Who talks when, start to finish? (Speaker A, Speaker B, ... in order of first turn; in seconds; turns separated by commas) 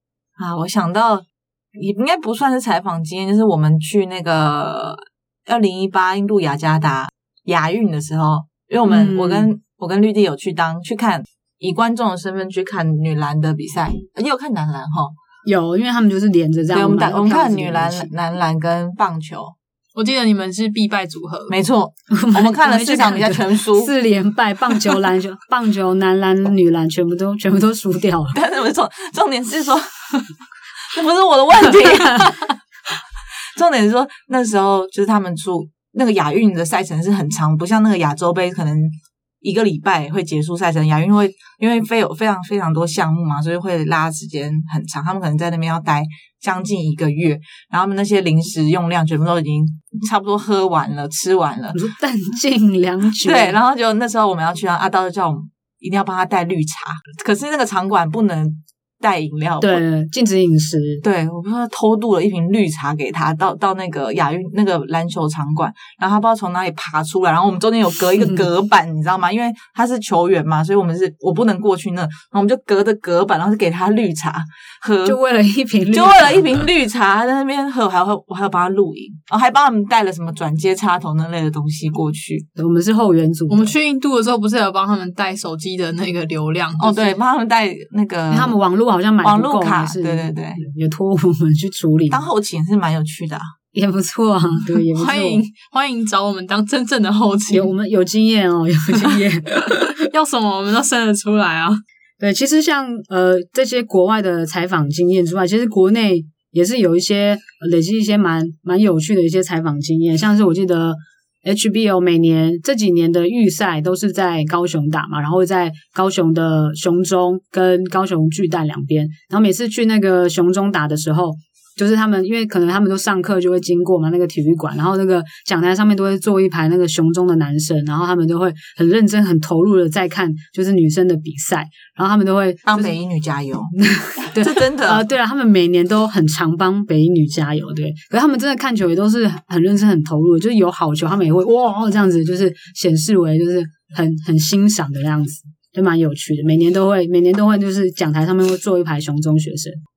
Speaker A: 0.4-15.1, Speaker B: 8.9-9.5, Speaker B: 15.4-18.1, Speaker A: 16.7-19.6, Speaker C: 19.9-21.6, Speaker A: 21.5-23.9, Speaker B: 22.1-28.3, Speaker A: 28.3-29.9, Speaker A: 30.9-32.5, Speaker A: 33.5-51.8, Speaker B: 51.7-53.6, Speaker A: 53.2-59.8, Speaker B: 59.6-61.0, Speaker A: 61.0-75.2, Speaker B: 75.0-76.5, Speaker A: 75.9-82.5, Speaker B: 82.5-83.7, Speaker C: 83.5-86.9, Speaker A: 86.8-88.5, Speaker B: 88.3-92.3, Speaker A: 89.2-90.6, Speaker A: 92.1-93.5, Speaker B: 93.7-95.4, Speaker C: 94.9-97.7, Speaker B: 97.5-100.0, Speaker C: 99.9-101.8, Speaker B: 102.2-132.9, Speaker A: 132.7-133.7, Speaker B: 133.8-149.8, Speaker A: 134.3-135.0